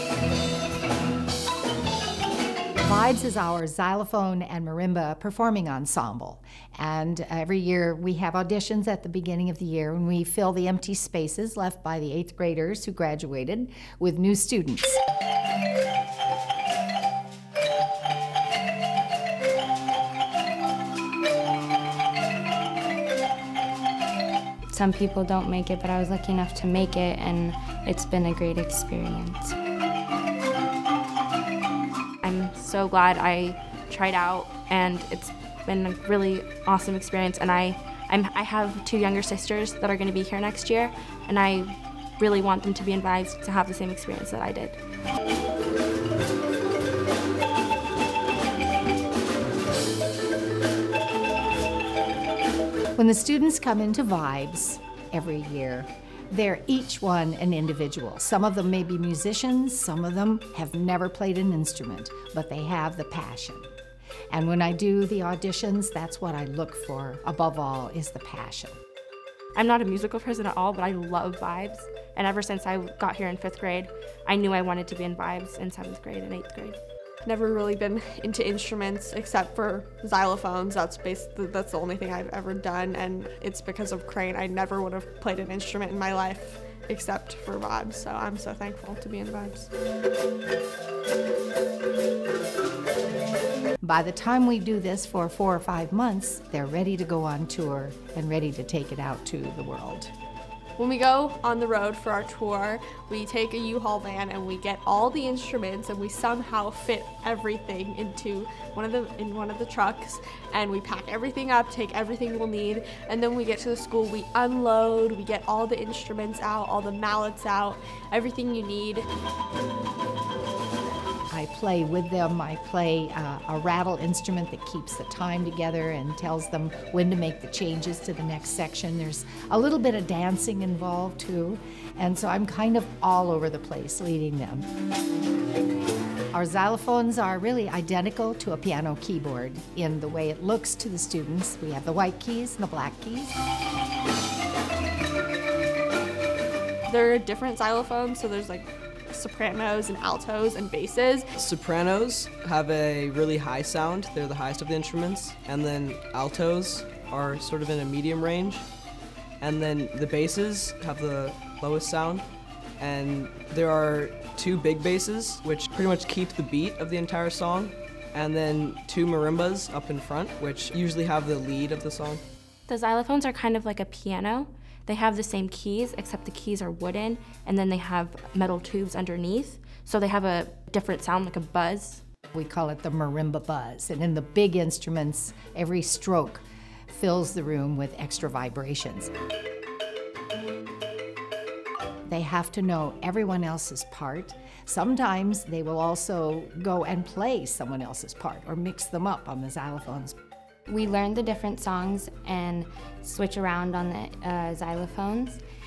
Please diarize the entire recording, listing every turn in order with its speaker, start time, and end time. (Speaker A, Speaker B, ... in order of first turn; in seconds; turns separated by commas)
Speaker A: 2.8-15.0, Speaker B: 24.7-29.5, Speaker C: 32.2-44.8, Speaker A: 53.0-63.7, Speaker A: 64.3-68.7, Speaker C: 69.5-76.8, Speaker D: 77.2-89.7, Speaker A: 93.8-100.1, Speaker D: 100.8-119.1, Speaker A: 121.3-134.7, Speaker A: 136.3-143.3, Speaker D: 146.9-151.2, Speaker E: 151.4-158.6, Speaker E: 159.4-162.2, Speaker E: 162.8-172.2, Speaker C: 172.7-182.0, Speaker A: 182.3-189.1, Speaker A: 192.1-200.2, Speaker B: 200.7-205.4